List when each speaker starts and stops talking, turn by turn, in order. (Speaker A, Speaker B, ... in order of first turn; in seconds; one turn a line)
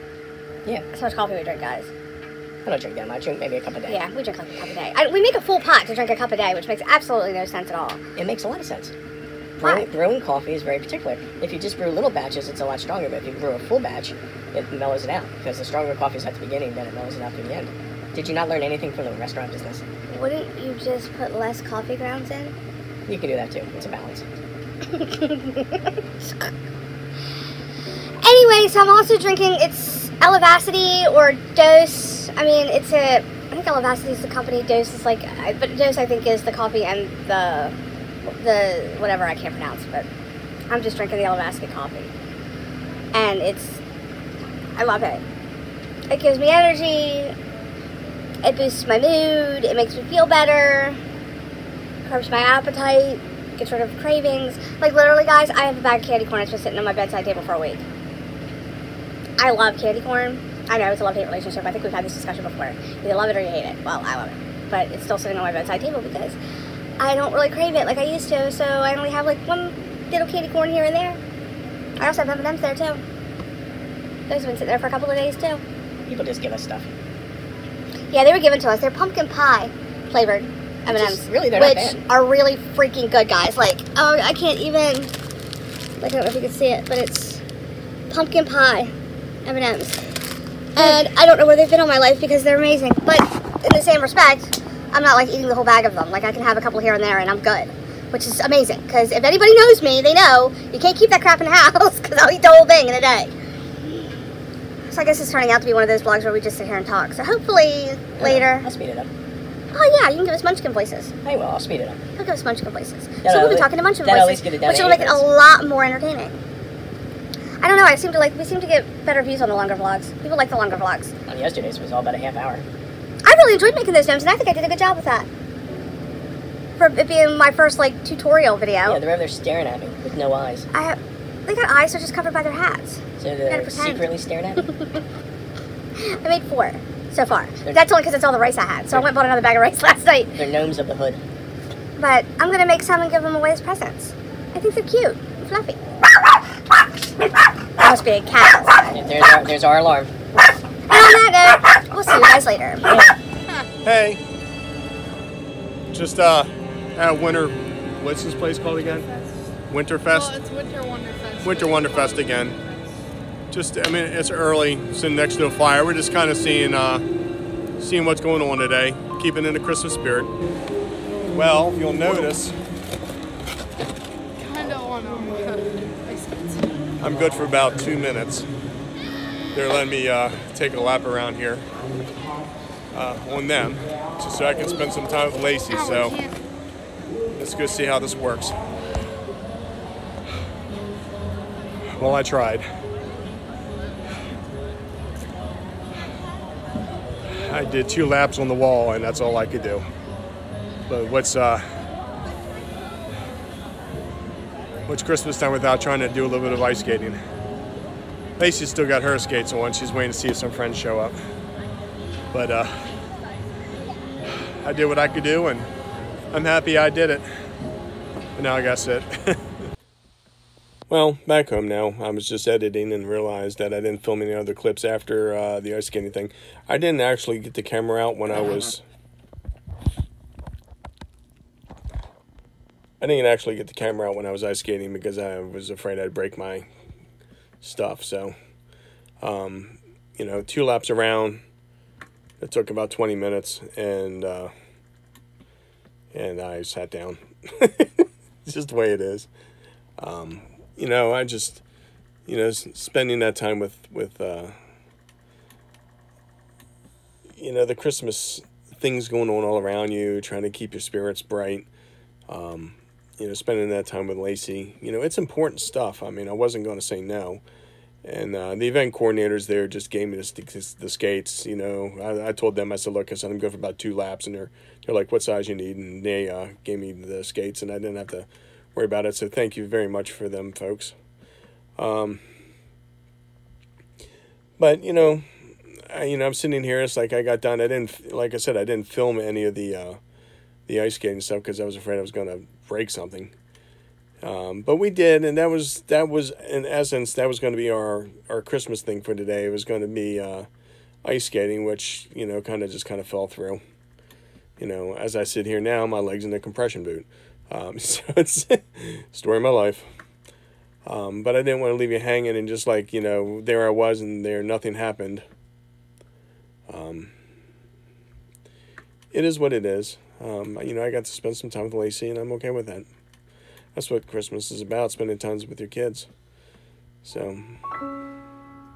Speaker A: 0.9-1.9
Speaker B: 2.6-4.0
Speaker A: 3.9-8.0
Speaker B: 8.2-8.9
Speaker A: 9.6-9.9
Speaker B: 9.6-19.8
Speaker A: 20.1-22.6
Speaker B: 23.1-24.2
Speaker A: 24.9-26.5
Speaker A: 28.2-40.1
Speaker A: 40.7-42.1
Speaker A: 43.1-43.8
Speaker A: 44.8-45.2
Speaker A: 46.1-47.4
Speaker A: 48.4-51.0
Speaker A: 52.0-57.9
Speaker A: 59.4-66.4
Speaker A: 67.0-71.2
Speaker A: 72.0-73.0
Speaker A: 74.3-75.6
Speaker B: 76.1-76.9
Speaker A: 78.1-85.1
Speaker B: 80.9-82.0
Speaker A: 86.0-87.4
Speaker A: 88.1-88.9
Speaker A: 89.5-90.0
Speaker A: 90.8-103.3
Speaker A: 104.9-108.7
Speaker B: 108.2-109.1
Speaker A: 109.7-111.1
Speaker B: 111.2-112.0
Speaker A: 112.2-116.4
Speaker B: 113.2-115.3
Speaker A: 117.6-121.1
Speaker B: 121.3-122.7
Speaker A: 123.2-125.3
Speaker A: 126.8-129.0
Speaker B: 128.8-130.7
Speaker A: 130.7-134.1
Speaker B: 133.2-134.7
Speaker A: 134.6-135.0
Speaker A: 136.0-140.4
Speaker B: 140.4-141.2
Speaker A: 142.0-145.8
Speaker A: 147.8-148.9
Speaker B: 148.9-150.1
Speaker A: 150.9-153.0
Speaker C: 153.8-154.2
Speaker C: 155.9-159.1
Speaker D: 158.8-159.5
Speaker C: 159.7-160.3
Speaker D: 160.1-162.8
Speaker C: 161.4-162.6
Speaker C: 163.5-167.1
Speaker C: 167.8-170.3
Speaker C: 171.3-172.6
Speaker D: 174.4-176.8
Speaker C: 177.0-178.5
Speaker C: 179.5-181.7
Speaker C: 182.9-186.1
Speaker D: 185.7-186.4
Speaker C: 187.3-188.6
Speaker C: 191.9-192.7
Speaker C: 197.4-199.9
Speaker C: 200.9-201.6
Speaker C: 204.9-207.2
Speaker C: 208.4-211.2
Speaker C: 212.3-212.7
Speaker C: 214.6-215.7
Speaker C: 216.3-217.3
Speaker C: 218.4-219.4
Speaker C: 220.9-228.8
Speaker C: 233.0-236.7
Speaker C: 237.6-238.3
Speaker C: 239.2-241.4
Speaker C: 242.4-244.5
Speaker C: 246.1-249.3
Speaker C: 250.0-251.6
Speaker C: 252.2-254.6
Speaker C: 257.4-261.7
Speaker C: 262.3-267.4
Speaker C: 268.0-280.9
Speaker C: 281.8-282.2
Speaker C: 284.6-285.3
Speaker C: 285.9-290.0
Speaker C: 290.7-293.3
Speaker C: 294.2-300.5
Speaker C: 301.0-303.6
Speaker C: 304.6-309.9
Speaker C: 310.9-315.2
Speaker C: 316.7-317.1
Speaker C: 319.1-322.9
Speaker C: 323.8-326.1
Speaker C: 327.0-327.6